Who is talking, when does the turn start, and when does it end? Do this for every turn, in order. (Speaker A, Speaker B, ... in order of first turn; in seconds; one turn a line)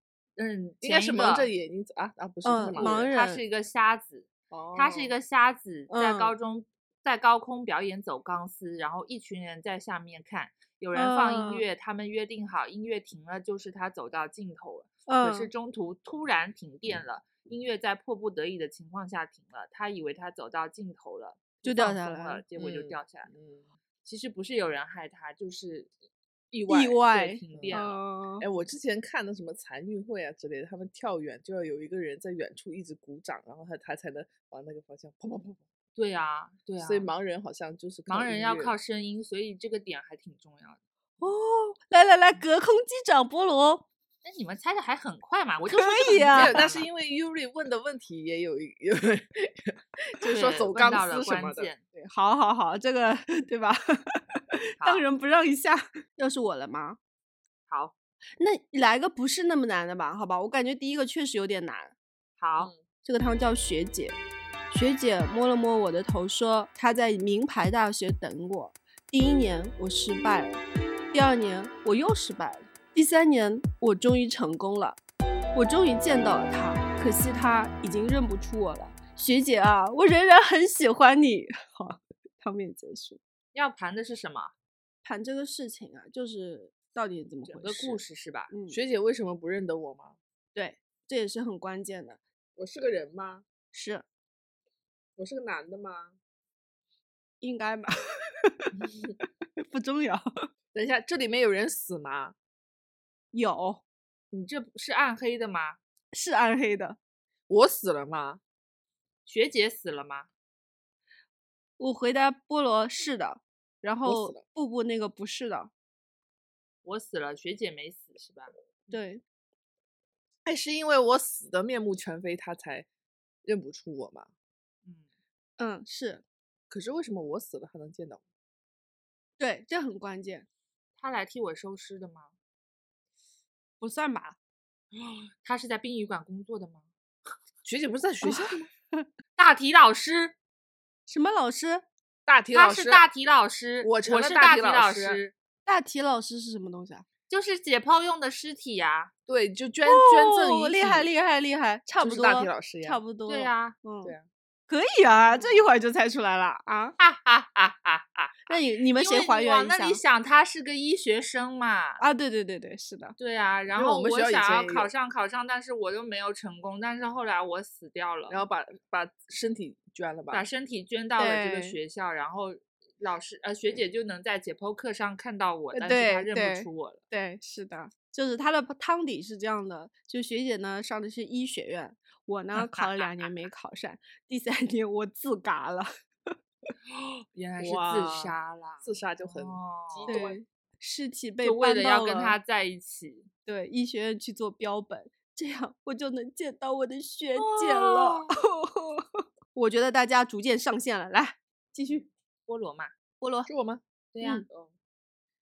Speaker A: 0.4-1.5
Speaker B: 0.8-3.1
Speaker C: 2.4-3.4
Speaker A: 2.8-23.3
Speaker B: 4.5-5.1
Speaker C: 5.9-6.3
Speaker C: 10.9-11.7
Speaker C: 15.1-15.5
Speaker C: 21.6-22.4
Speaker B: 22.6-23.7
Speaker A: 24.0-25.9
Speaker B: 26.5-27.8
Speaker C: 26.7-28.4
Speaker A: 27.1-28.0
Speaker B: 28.4-35.6
Speaker A: 36.0-37.1
Speaker B: 36.8-38.8
Speaker A: 38.1-40.8
Speaker C: 41.2-43.9
Speaker A: 44.2-46.9
Speaker C: 45.7-46.6
Speaker B: 46.3-51.7
Speaker A: 50.3-51.8
Speaker C: 52.0-57.0
Speaker A: 54.8-55.0
Speaker A: 57.7-57.9
Speaker C: 58.4-62.0
Speaker A: 62.4-62.7
Speaker C: 63.0-64.2
Speaker C: 64.7-75.0
Speaker C: 75.5-83.2
Speaker A: 83.5-84.5
Speaker C: 85.0-88.0
Speaker A: 87.5-88.5
Speaker C: 88.5-88.8
Speaker B: 88.7-90.2
Speaker C: 90.5-92.2
Speaker B: 92.6-93.4
Speaker C: 93.7-94.0
Speaker B: 95.2-96.2
Speaker C: 97.4-98.8
Speaker C: 99.6-100.5
Speaker B: 100.7-102.3
Speaker C: 103.3-103.8
Speaker A: 104.3-105.8
Speaker C: 106.1-107.0
Speaker B: 107.5-108.4
Speaker A: 109.3-110.3
Speaker C: 111.8-115.7
Speaker B: 114.0-114.4
Speaker A: 116.8-118.5
Speaker C: 118.9-119.2
Speaker B: 120.5-122.9
Speaker B: 123.5-124.3
Speaker C: 125.6-126.2
Speaker B: 126.7-128.2
Speaker C: 129.4-130.5
Speaker A: 131.0-132.3
Speaker C: 133.8-134.4
Speaker A: 135.0-136.9
Speaker B: 137.7-138.7
Speaker C: 138.2-139.1
Speaker A: 139.4-140.3
Speaker C: 141.1-141.8
Speaker B: 142.3-143.0
Speaker A: 142.5-145.3
Speaker B: 143.8-145.2
Speaker C: 145.7-147.1
Speaker A: 147.3-149.1
Speaker B: 149.3-151.1
Speaker C: 149.9-154.1
Speaker B: 152.0-153.0
Speaker A: 153.3-153.8
Speaker C: 154.7-156.9
Speaker A: 157.0-162.0
Speaker C: 158.5-160.0
Speaker C: 162.0-163.2
Speaker A: 163.2-168.4
Speaker B: 163.7-164.9
Speaker B: 168.3-170.4
Speaker A: 170.3-177.0
Speaker C: 171.2-171.8
Speaker C: 175.7-186.3
Speaker A: 182.6-183.3
Speaker A: 187.3-190.2
Speaker B: 187.6-190.4
Speaker C: 190.1-192.4
Speaker A: 191.4-193.3
Speaker C: 193.5-202.1
Speaker B: 197.6-198.2
Speaker A: 202.5-202.9
Speaker C: 203.2-203.5
Speaker B: 203.5-203.8
Speaker A: 204.2-204.4